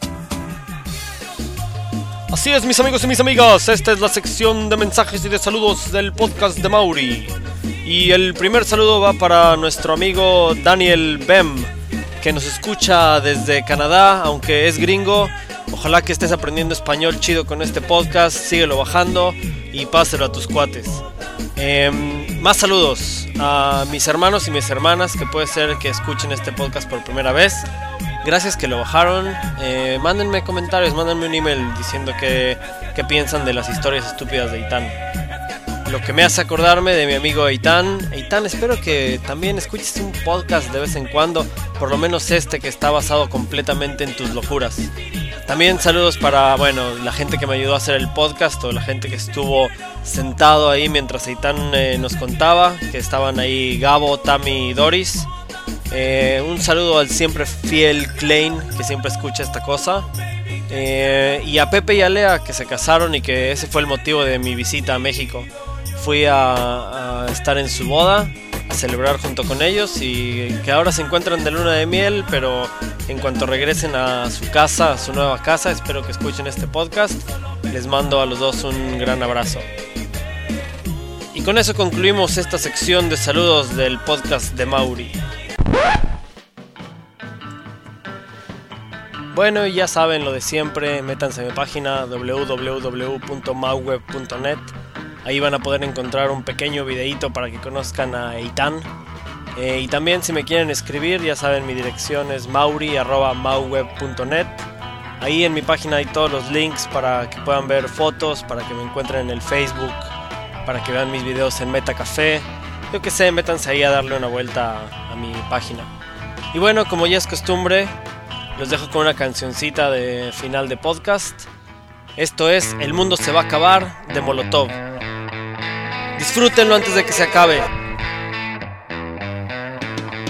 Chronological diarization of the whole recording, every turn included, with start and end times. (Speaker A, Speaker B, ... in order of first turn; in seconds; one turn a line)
Speaker A: 2.3-21.0
Speaker A: 21.6-27.7
Speaker A: 28.2-35.0
Speaker A: 35.8-44.9
Speaker A: 45.4-55.3
Speaker A: 55.9-60.1
Speaker A: 60.7-79.7
Speaker A: 81.3-85.2
Speaker A: 89.3-94.7
Speaker A: 95.2-98.9
Speaker A: 99.5-104.7
Speaker A: 105.2-110.1
Speaker A: 110.6-115.9
Speaker A: 116.5-117.9
Speaker A: 118.5-121.5
Speaker A: 122.2-124.8
Speaker A: 126.2-127.7